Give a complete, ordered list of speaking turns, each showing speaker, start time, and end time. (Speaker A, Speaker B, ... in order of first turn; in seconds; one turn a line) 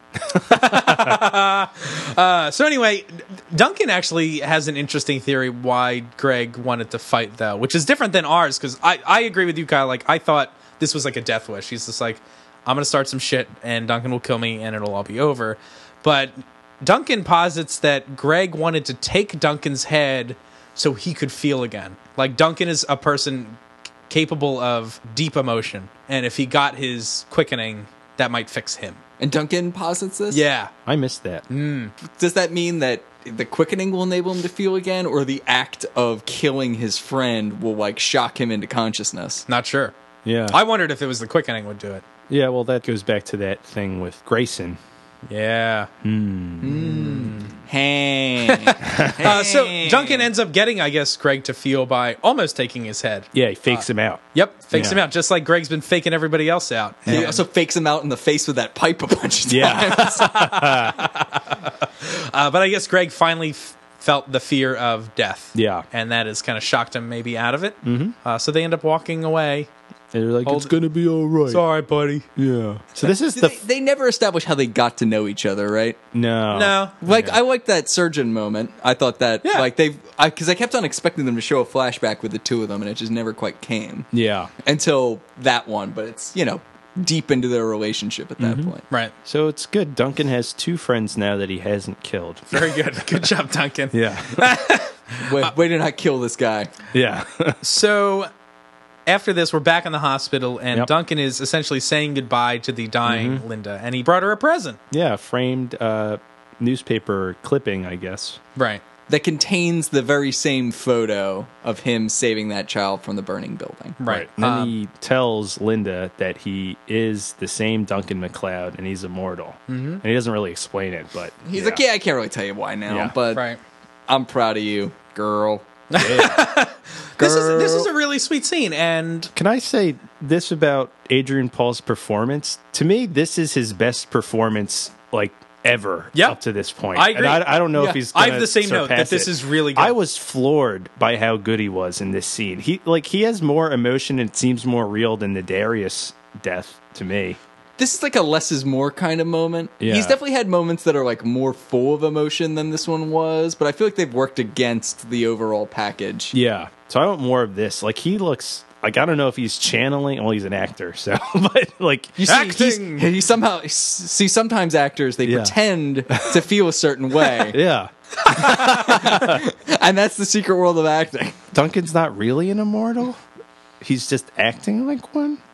Speaker A: 0.2-1.2
Speaker B: 0.5-29.0
Speaker C: 29.2-30.4
Speaker B: 30.3-30.7
Speaker A: 30.9-31.5
Speaker B: 31.5-31.9
Speaker C: 32.2-39.5
Speaker B: 39.5-39.9
Speaker A: 40.2-40.6
Speaker B: 40.5-42.0
Speaker A: 42.3-44.8
Speaker B: 45.3-45.9
Speaker A: 46.0-47.1
Speaker C: 46.6-50.3
Speaker B: 47.0-47.5
Speaker A: 48.9-49.2
Speaker B: 49.2-57.4
Speaker A: 53.3-55.0
Speaker A: 57.1-57.3
Speaker C: 57.1-60.4
Speaker A: 59.5-61.0
Speaker B: 59.9-69.7
Speaker A: 65.5-65.9
Speaker A: 67.8-68.2
Speaker A: 70.1-71.6
Speaker B: 70.5-70.8
Speaker B: 71.5-72.2
Speaker A: 72.4-73.6
Speaker C: 73.3-76.0
Speaker A: 76.1-76.8
Speaker B: 76.5-77.4
Speaker C: 77.0-84.1
Speaker A: 84.1-84.5
Speaker C: 84.6-88.8
Speaker A: 88.4-88.7
Speaker A: 89.2-92.7
Speaker B: 92.5-95.5
Speaker A: 93.9-94.5
Speaker C: 95.2-96.7
Speaker A: 96.9-97.6
Speaker B: 97.6-98.3
Speaker B: 99.1-104.8
Speaker A: 103.0-103.4
Speaker A: 104.9-108.4
Speaker B: 108.6-108.8
Speaker C: 109.1-114.0
Speaker B: 114.0-114.8
Speaker A: 114.0-121.8
Speaker B: 119.7-120.0
Speaker C: 121.5-123.5
Speaker A: 122.9-123.2
Speaker B: 123.3-123.6
Speaker C: 124.1-125.7
Speaker B: 125.9-129.3
Speaker A: 126.0-126.4
Speaker C: 127.2-127.9
Speaker A: 129.3-147.4
Speaker B: 136.9-140.0
Speaker C: 147.8-156.3
Speaker A: 149.8-150.2
Speaker A: 156.3-162.4
Speaker C: 162.2-167.6
Speaker B: 162.2-163.1
Speaker A: 165.2-165.6
Speaker A: 166.1-166.4
Speaker A: 167.4-169.4
Speaker C: 168.3-171.4
Speaker B: 168.3-169.0
Speaker A: 171.5-173.2
Speaker A: 173.8-175.4